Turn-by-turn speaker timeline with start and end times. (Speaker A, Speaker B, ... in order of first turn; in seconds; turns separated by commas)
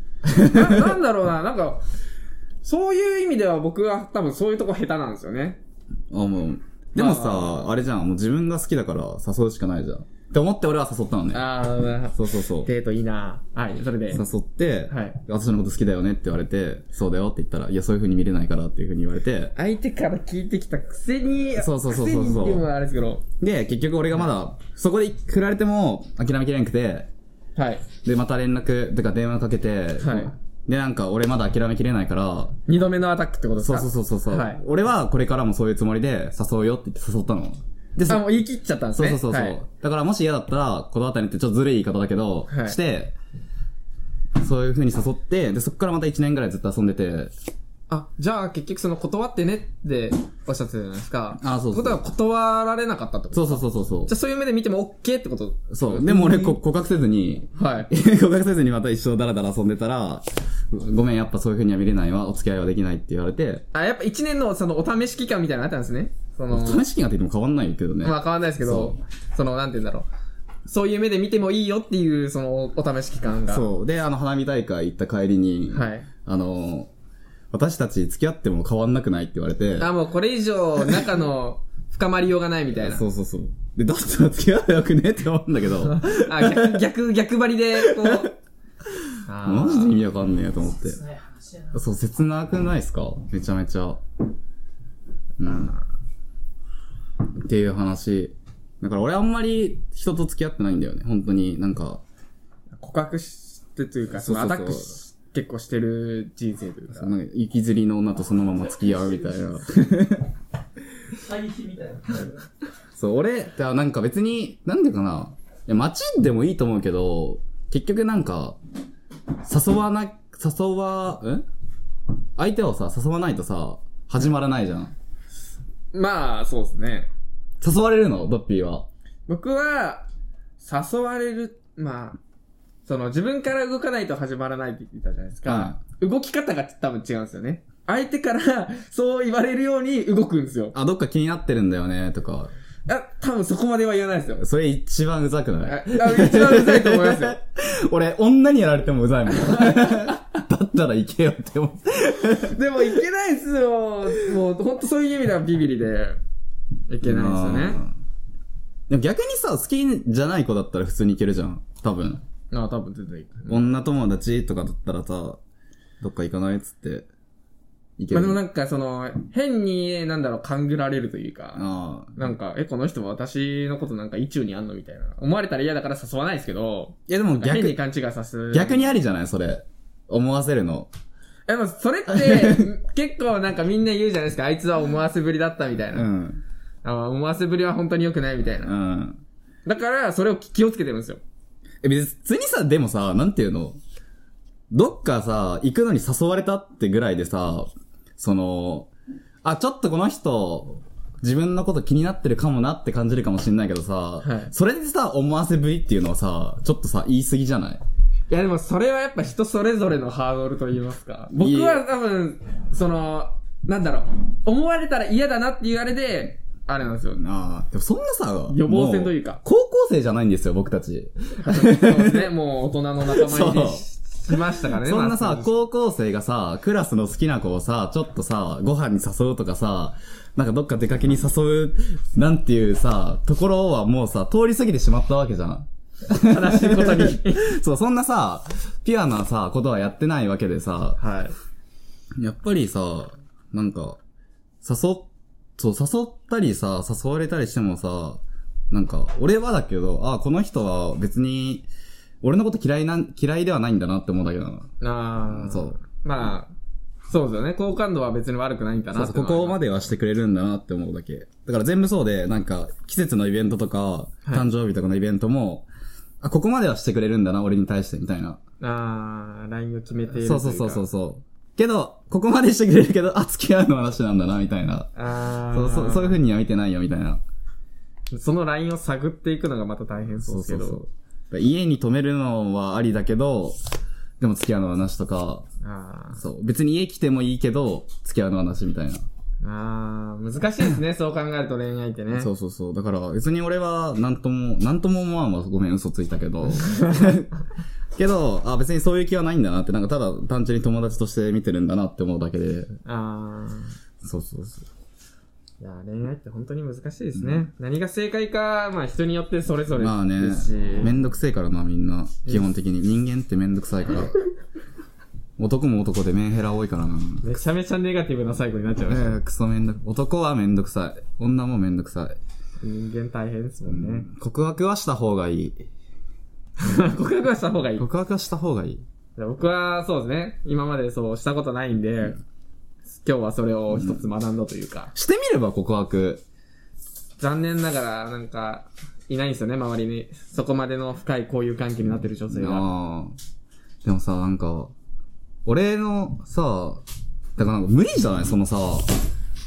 Speaker A: 0.2-1.0, Speaker B: 0.5-1.8, Speaker B: 2.6-5.6, Speaker A: 6.1-11.4, Speaker B: 7.0-7.6, Speaker B: 11.3-14.2, Speaker A: 12.1-12.7, Speaker A: 14.1-19.5, Speaker B: 14.9-15.2, Speaker B: 19.6-23.2, Speaker A: 21.6-22.7, Speaker A: 23.4-27.1, Speaker B: 27.6-27.9, Speaker A: 28.0-32.6, Speaker B: 30.0-30.3, Speaker B: 32.7-34.6, Speaker A: 33.6-38.3, Speaker B: 38.1-39.6, Speaker A: 39.0-43.1, Speaker B: 42.5-42.8, Speaker A: 44.4-47.3, Speaker B: 47.9-56.6, Speaker A: 51.4-52.0, Speaker A: 53.3-54.1, Speaker A: 55.7-63.6, Speaker B: 57.5-57.9, Speaker B: 63.7-66.8, Speaker A: 66.5-69.0, Speaker B: 68.0-70.1, Speaker B: 70.7-73.6, Speaker A: 73.5-76.9, Speaker B: 75.7-76.1, Speaker A: 77.5-79.9, Speaker B: 79.8-83.0, Speaker A: 82.8-86.8, Speaker B: 85.8-88.3, Speaker A: 87.8-88.2, Speaker B: 89.2-90.0, Speaker A: 89.4-91.0, Speaker C: 90.6-91.8, Speaker A: 91.7-94.0, Speaker A: 95.4-95.7, Speaker B: 95.4-95.8, Speaker A: 97.4-102.0, Speaker B: 102.8-107.1, Speaker A: 104.1-105.0, Speaker A: 106.9-110.3, Speaker C: 111.1-112.3, Speaker A: 113.0-118.6, Speaker A: 119.4-121.4, Speaker A: 122.4-124.9, Speaker B: 125.9-127.1, Speaker A: 127.6-128.9, Speaker B: 129.3-130.1, Speaker B: 130.6-132.2, Speaker B: 132.8-140.7, Speaker A: 135.4-135.8, Speaker A: 140.7-142.5, Speaker B: 142.9-144.4, Speaker A: 144.4-152.6, Speaker B: 145.6-147.3, Speaker B: 149.5-150.0, Speaker B: 152.4-156.2, Speaker B: 156.9-157.8, Speaker A: 157.0-157.9, Speaker A: 158.9-162.2, Speaker B: 162.5-163.7, Speaker A: 163.5-165.4, Speaker A: 166.0-167.1, Speaker A: 168.0-168.4, Speaker B: 168.1-171.6, Speaker A: 171.5-172.2, Speaker B: 172.2-178.8, Speaker A: 177.1-177.8, Speaker A: 178.5-180.9, Speaker B: 181.5-186.1, Speaker A: 182.1-182.7, Speaker A: 185.9-186.4, Speaker B: 186.8-188.7, Speaker A: 188.6-189.2, Speaker B: 189.6-191.2, Speaker A: 191.8-193.8, Speaker A: 194.7-198.9, Speaker A: 199.4-207.8, Speaker B: 204.2-204.5, Speaker B: 208.3-217.2, Speaker A: 211.4-211.8, Speaker A: 217.2-222.3, Speaker B: 218.5-219.4, Speaker B: 221.4-225.5, Speaker A: 223.1-241.0, Speaker B: 236.2-237.6, Speaker B: 241.0-241.3, Speaker A: 242.2-244.0, Speaker A: 244.6-251.7, Speaker A: 252.2-254.7, Speaker B: 254.8-256.5, Speaker A: 255.2-255.8, Speaker B: 257.1-259.6, Speaker A: 258.9-265.7, Speaker A: 266.2-268.4, Speaker B: 268.6-270.8, Speaker A: 270.2-274.9, Speaker B: 274.9-276.2, Speaker A: 275.5-277.2, Speaker B: 278.1-280.8, Speaker A: 280.2-283.6, Speaker A: 284.2-285.4, Speaker B: 285.6-286.2, Speaker A: 286.1-289.1, Speaker B: 289.4-292.3, Speaker A: 292.1-297.3, Speaker B: 296.6-296.9, Speaker A: 297.9-302.7, Speaker B: 302.8-303.7, Speaker A: 304.0-304.6, Speaker B: 305.6-310.9, Speaker A: 307.1-307.5, Speaker A: 309.8-314.1, Speaker A: 315.4-317.2, Speaker B: 317.2-319.2, Speaker A: 318.9-322.2, Speaker B: 322.6-324.1, Speaker A: 323.7-325.7, Speaker B: 326.6-327.8, Speaker A: 327.8-328.8, Speaker B: 329.2-332.2, Speaker B: 333.0-334.9, Speaker A: 334.9-336.2, Speaker B: 337.2-342.7, Speaker A: 342.3-343.2, Speaker A: 343.8-344.7, Speaker A: 345.4-346.8, Speaker A: 347.4-349.0